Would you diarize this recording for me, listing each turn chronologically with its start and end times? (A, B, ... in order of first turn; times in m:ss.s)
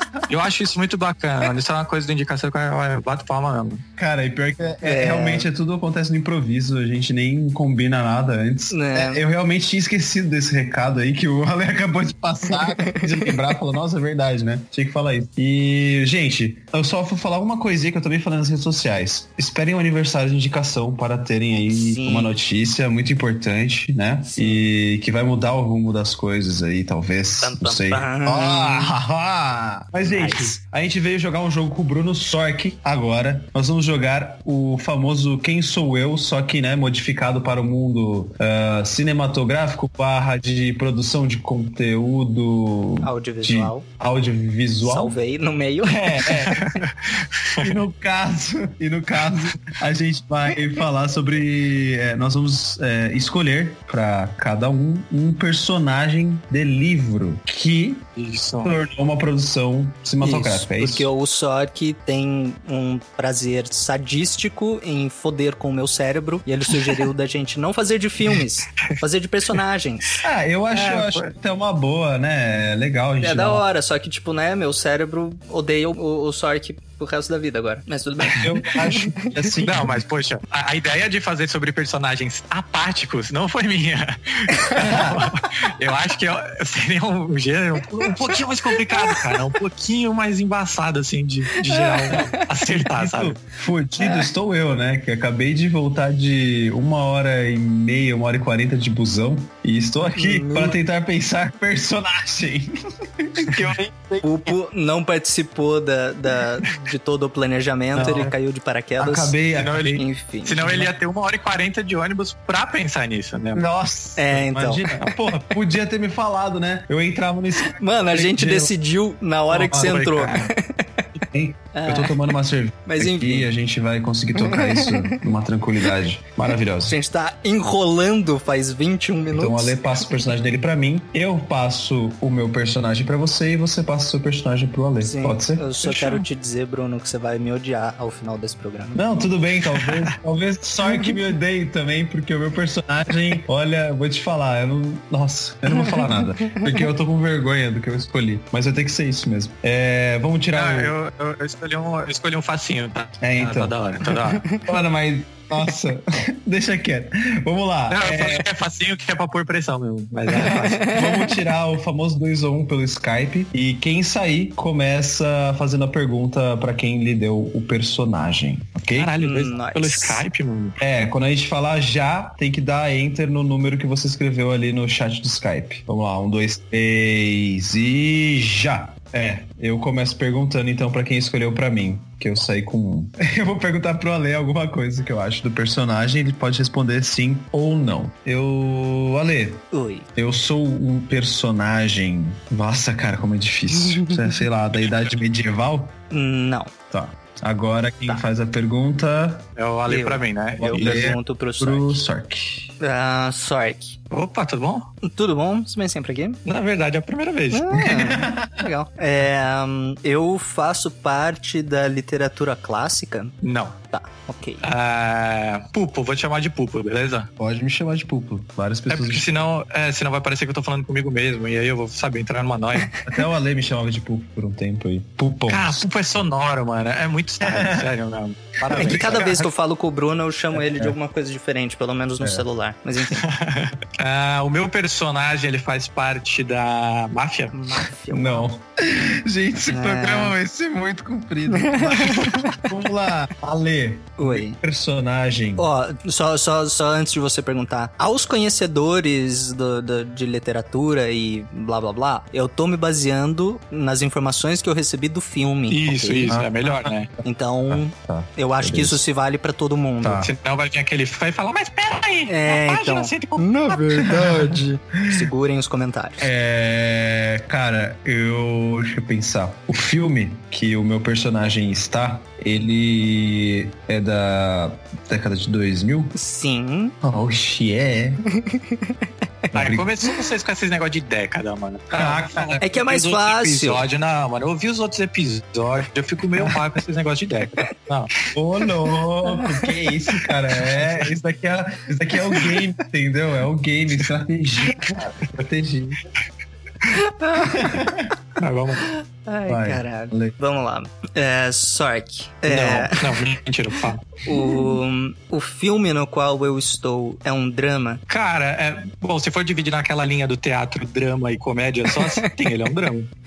0:00.3-0:03.8 A
0:04.0-0:45.2 B
0:04.8-0:05.5 C
0:08.7-0:09.2 C
0:21.7-0:22.4 C
0:24.3-0:24.7 C
0:27.4-0:28.9 C
0:30.0-0:30.6 C
0:43.0-0:43.8 C
0:44.8-0:46.5 C
0:45.9-0:46.6 B
0:46.4-0:47.7 A
0:47.6-0:58.0 B
0:58.2-0:58.7 A
0:58.6-1:01.1 B
1:00.2-1:10.2 C
1:10.2-1:13.6 B
1:10.7-1:11.3 A
1:13.2-1:19.5 C
1:18.4-1:19.9 B
1:19.6-1:33.4 A
1:24.8-1:25.3 B
1:28.9-1:29.3 C
1:31.6-1:32.4 C
1:32.7-1:44.5 B
1:40.2-1:40.8 C
1:44.2-1:49.4 C
1:47.9-1:48.3 B
1:49.0-1:50.0 B
1:49.5-1:53.6 A
1:50.0-1:50.9 C
1:50.6-1:50.9 B
1:53.5-1:58.7 B
1:54.2-1:54.9 C
1:57.8-2:01.0 C
1:59.5-2:00.5 A
1:59.6-1:59.9 B
2:01.2-2:07.0 B
2:01.7-2:02.2 C
2:02.8-2:03.5 C
2:04.4-2:05.2 C
2:06.8-2:09.8 C
2:09.3-2:16.0 B
2:15.0-2:19.0 C
2:18.9-2:30.9 B
2:30.5-2:34.4 A
2:33.2-2:33.8 B
2:34.6-2:38.5 B
2:37.9-2:40.9 A
2:40.5-2:41.0 C
2:40.8-2:49.1 B
2:48.9-2:50.8 A
2:49.2-2:50.2 C
2:50.8-3:15.9 B
3:09.7-3:10.1 C
3:16.1-3:16.7 C
3:16.9-3:19.5 B
3:19.6-3:21.2 A
3:19.9-3:22.0 C
3:20.6-3:22.7 B
3:22.8-3:24.0 C
3:24.1-3:24.9 A
3:25.0-3:26.4 C
3:26.4-3:27.9 A
3:27.5-3:33.3 C
3:27.8-3:28.7 B
3:33.4-3:33.8 A
3:33.9-3:34.7 C
3:34.6-3:37.3 A
3:37.4-3:39.4 B
3:38.9-3:42.9 A
3:43.0-3:45.9 B
3:45.5-3:49.3 A
3:47.4-3:47.9 B
3:48.6-3:49.5 B
3:48.7-3:53.3 C
3:50.5-3:51.0 B
3:53.1-3:57.6 A
3:57.5-3:58.5 C
3:58.1-4:05.7 B
3:59.7-4:00.3 C
4:01.5-4:02.6 C
4:04.2-4:04.6 C
4:05.6-4:16.4 C
4:15.7-4:17.1 A
4:16.2-4:19.0 B
4:17.2-4:20.3 C
4:20.0-4:20.3 B
4:20.2-4:23.8 A
4:22.3-4:26.3 C
4:24.0-4:25.3 B
4:26.2-4:36.1 B
4:36.1-4:36.9 C
4:37.0-4:38.2 B
4:38.3-4:38.9 C
4:39.5-4:39.9 B
4:39.5-4:48.1 A
4:41.9-4:42.6 B
4:42.6-4:43.8 C
4:48.3-4:56.0 B
4:49.3-4:49.7 C
4:50.6-4:51.1 A
4:56.9-4:57.8 C
4:57.4-4:58.1 B
4:58.4-4:58.9 A
4:58.9-5:03.2 C
4:59.5-5:00.3 B
5:02.5-5:04.2 A
5:04.2-5:08.0 C
5:08.1-5:13.1 A
5:11.9-5:12.3 C